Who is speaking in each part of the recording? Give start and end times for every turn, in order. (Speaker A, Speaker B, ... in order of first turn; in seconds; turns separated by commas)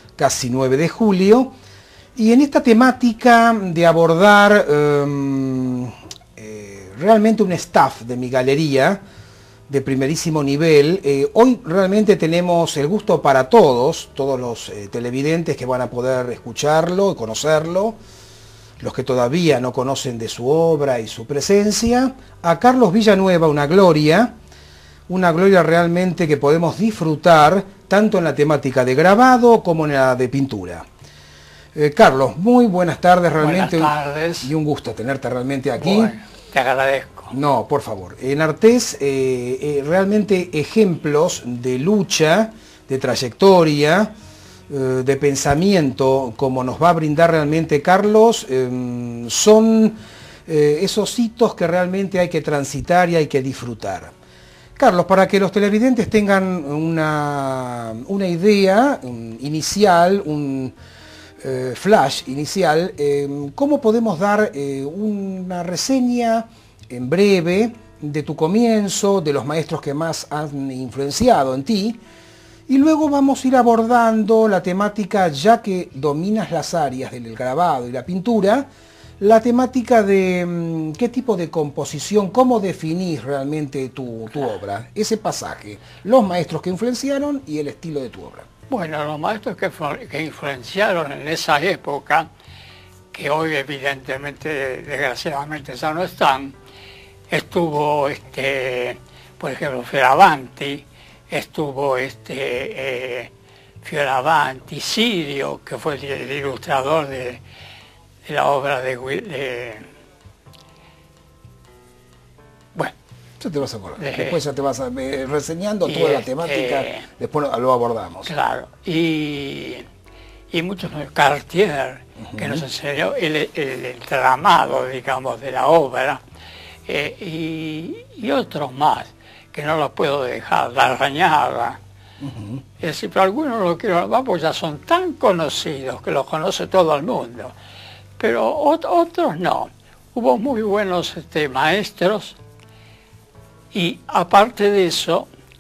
Speaker A: 0.2-1.5, Speaker A: 2.2-9.0, Speaker A: 9.7-18.0, Speaker A: 18.8-24.3, Speaker A: 25.1-30.9, Speaker A: 31.8-36.1, Speaker B: 33.4-34.5, Speaker B: 35.8-37.3, Speaker A: 37.3-44.1, Speaker A: 44.7-54.1, Speaker A: 54.8-60.8, Speaker A: 61.4-72.0, Speaker A: 72.7-78.7, Speaker A: 79.2-88.5, Speaker B: 88.7-92.3, Speaker B: 93.1-96.5, Speaker B: 97.3-107.4, Speaker B: 108.2-109.9, Speaker A: 113.4-118.3, Speaker B: 114.0-114.4, Speaker B: 115.9-117.1, Speaker B: 118.3-119.8, Speaker B: 120.5-126.2, Speaker A: 122.2-122.6, Speaker B: 126.9-131.8, Speaker A: 132.2-132.6, Speaker B: 132.8-137.5, Speaker B: 138.2-142.4, Speaker B: 143.7-145.3